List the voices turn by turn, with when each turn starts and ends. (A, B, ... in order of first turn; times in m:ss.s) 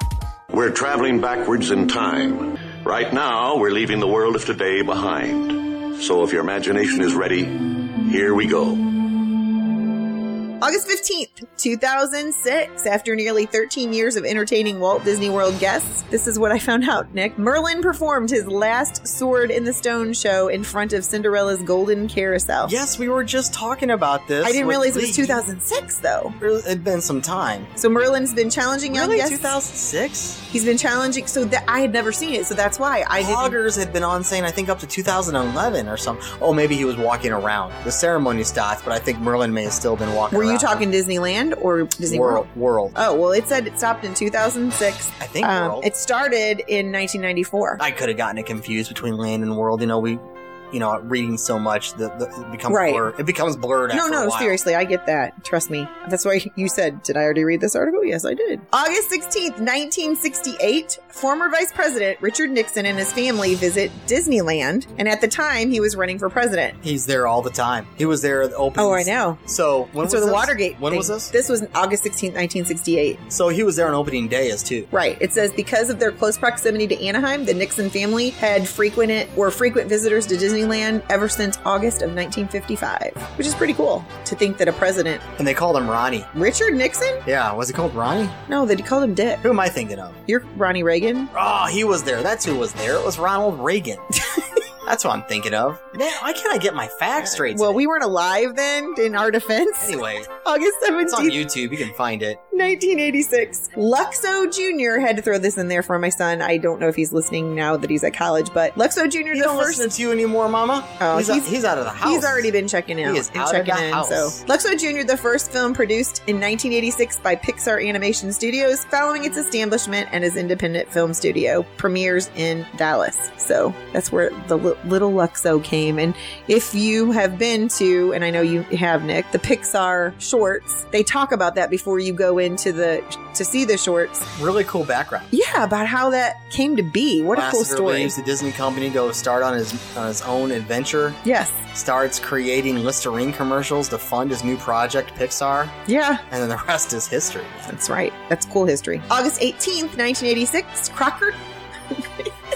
0:00.5-0:08.8 A
0:10.6-0:22.8 B
0:22.6-0:25.4 C
0:24.4-0:26.4 B
0:26.4-0:27.7 C
0:27.8-0:29.6 B
0:28.9-0:30.4 C
0:30.5-0:33.6 B
0:33.2-0:40.8 C
0:40.3-0:47.8 B
0:42.1-0:43.0 C
0:45.2-0:45.9 C
0:47.8-0:54.6 C
0:52.7-0:53.1 B
0:53.9-1:06.8 B
1:06.8-1:11.3 C
1:08.8-1:09.4 B
1:10.0-1:13.2 B
1:13.3-1:14.9 C
1:14.9-1:25.2 B
1:25.4-1:26.3 C
1:26.3-1:27.2 B
1:27.2-1:28.4 C
1:28.5-1:29.4 B
1:29.4-1:30.2 C
1:30.3-1:31.3 B
1:31.3-1:34.1 C
1:34.8-1:37.9 C
1:37.2-1:41.4 B
1:39.8-1:40.3 C
1:41.0-1:42.4 C
1:42.5-1:49.9 B
1:49.3-1:52.5 C
1:51.0-2:14.3 B
1:53.0-1:54.4 C
2:14.4-2:15.3 C
2:15.3-2:18.2 B
2:17.3-2:21.2 C
2:21.2-2:21.6 B
2:21.7-2:27.7 C
2:25.9-2:26.2 B
2:27.7-2:31.4 B
2:31.9-2:32.3 B